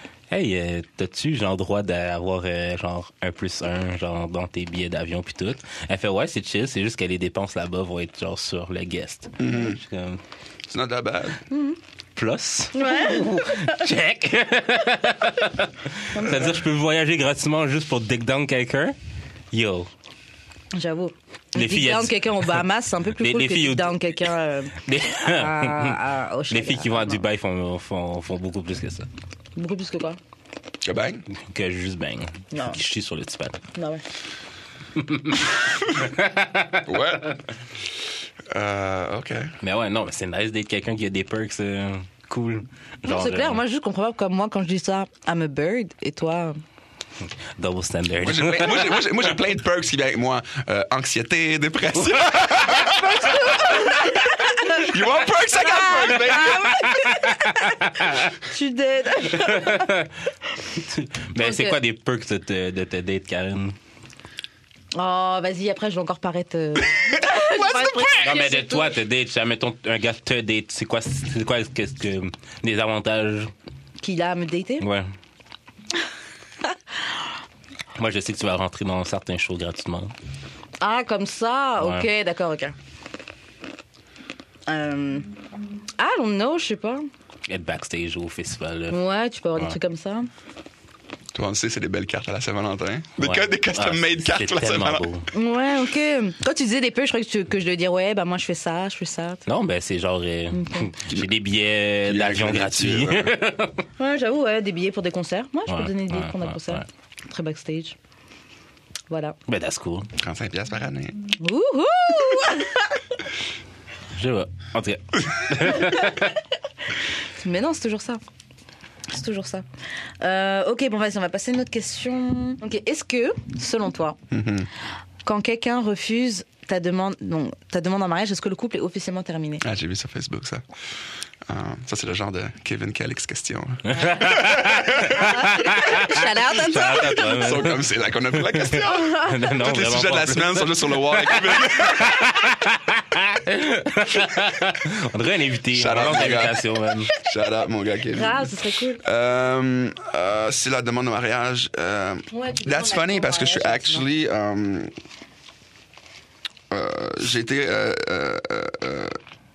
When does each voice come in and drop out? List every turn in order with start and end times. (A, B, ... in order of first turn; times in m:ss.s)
0:00.3-0:10.2 A
0:09.4-0:09.8 B
0:10.7-0:11.4 B
0:11.5-0:11.8 C
0:12.2-0:19.0 A
0:12.7-0:13.8 C
0:16.1-0:16.6 C
0:19.5-0:19.9 A
0:20.7-0:27.2 C
0:21.5-0:24.3 A
0:24.8-0:29.1 A
0:29.6-0:30.2 C
0:30.8-0:31.2 B
0:31.4-0:33.6 A
0:32.5-0:32.8 C
0:33.7-0:34.0 C
0:35.0-0:36.9 A
0:36.8-0:37.3 B
0:38.5-0:39.5 B
0:39.6-0:43.6 A
0:43.0-0:46.6 C
0:47.6-0:49.0 A
0:48.2-0:56.8 B
0:52.7-0:59.9 C
0:56.3-0:58.3 A
0:59.4-1:00.1 A
1:00.7-1:03.8 A
1:01.4-1:01.8 C
1:04.9-1:09.0 C
1:07.0-1:08.3 B
1:08.2-1:13.5 A
1:14.0-1:14.8 C
1:14.8-1:15.1 A
1:18.0-1:20.1 A
1:20.8-1:22.7 C
1:21.8-1:22.1 A
1:24.7-1:25.3 C
1:26.0-1:27.1 C
1:27.5-1:29.0 A
1:28.9-1:30.3 C
1:31.3-1:35.0 B
1:33.2-1:35.3 A
1:35.3-1:39.4 C
1:39.5-1:43.8 A
1:40.5-1:40.9 C
1:42.0-1:43.3 B
1:44.0-1:48.0 C
1:45.7-1:46.8 A
1:49.1-1:49.4 C
1:49.5-1:50.1 A
1:50.2-1:51.2 B
1:51.4-1:53.0 C
1:54.1-1:56.3 A
1:55.6-1:56.2 C
1:57.4-1:58.2 C
1:59.1-1:59.6 C
2:00.2-2:04.2 C
2:04.3-2:04.7 B
2:05.2-2:09.6 C
2:09.6-2:10.6 B
2:11.4-2:15.9 B
2:13.9-2:17.9 A
2:15.0-2:17.4 C
2:16.7-2:22.6 B
2:18.4-2:27.1 A
2:18.8-2:19.4 C
2:25.7-2:26.6 B
2:27.1-2:34.9 B
2:28.1-2:29.0 C
2:32.3-2:34.1 C
2:36.7-2:39.2 B